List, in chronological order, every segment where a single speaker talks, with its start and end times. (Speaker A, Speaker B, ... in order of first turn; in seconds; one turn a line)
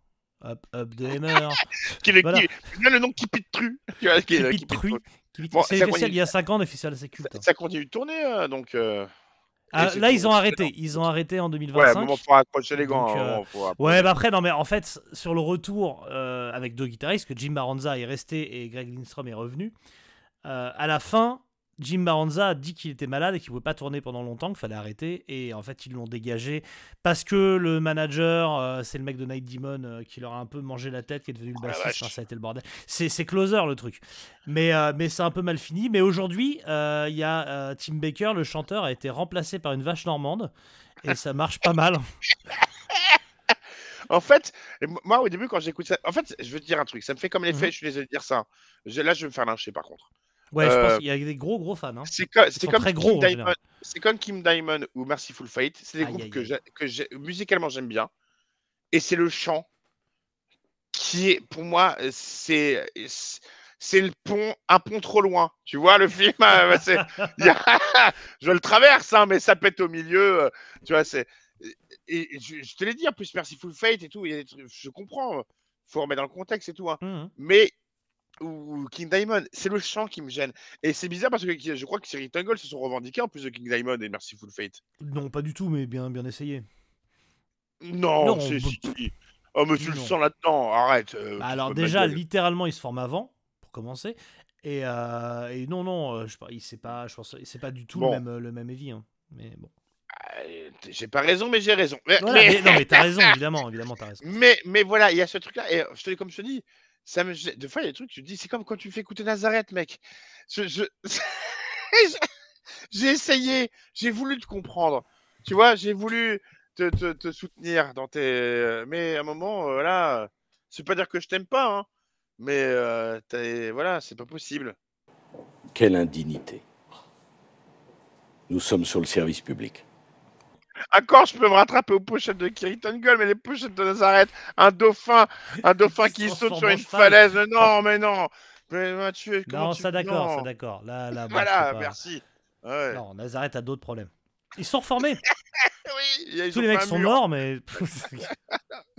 Speaker A: 0.4-1.6
Speaker B: 1.3-6.2
Speaker A: 4.3-7.4
Speaker B: 7.2-9.1
Speaker A: 9.7-12.2
Speaker B: 9.7-11.0
Speaker B: 11.7-14.1
Speaker A: 12.8-19.7
Speaker A: 20.4-40.5
Speaker B: 31.6-32.1
Speaker A: 41.0-42.0
Speaker B: 42.9-43.2
Speaker B: 44.1-50.1
Speaker A: 50.5-53.5
Speaker B: 50.6-51.0
Speaker B: 52.1-58.1
Speaker A: 56.0-56.5
Speaker B: 58.9-59.6
Speaker B: 60.9-77.7
Speaker A: 66.7-67.3
Speaker A: 77.0-77.3
Speaker B: 78.4-84.8
Speaker A: 85.0-86.7
Speaker B: 87.8-92.2
Speaker A: 88.2-88.8
Speaker A: 89.8-90.2
Speaker A: 91.4-99.7
Speaker B: 97.9-98.2
Speaker B: 100.1-103.3
Speaker A: 102.2-104.2
Speaker B: 104.2-112.2
Speaker B: 112.9-121.9
Speaker B: 122.4-124.8
Speaker C: 125.7-126.6
Speaker C: 128.5-129.8
Speaker B: 130.9-140.5
Speaker A: 135.9-137.2
Speaker A: 139.5-141.9
Speaker B: 141.3-143.0
Speaker A: 142.9-145.2
Speaker B: 145.5-147.2
Speaker A: 146.5-148.3
Speaker B: 148.3-148.7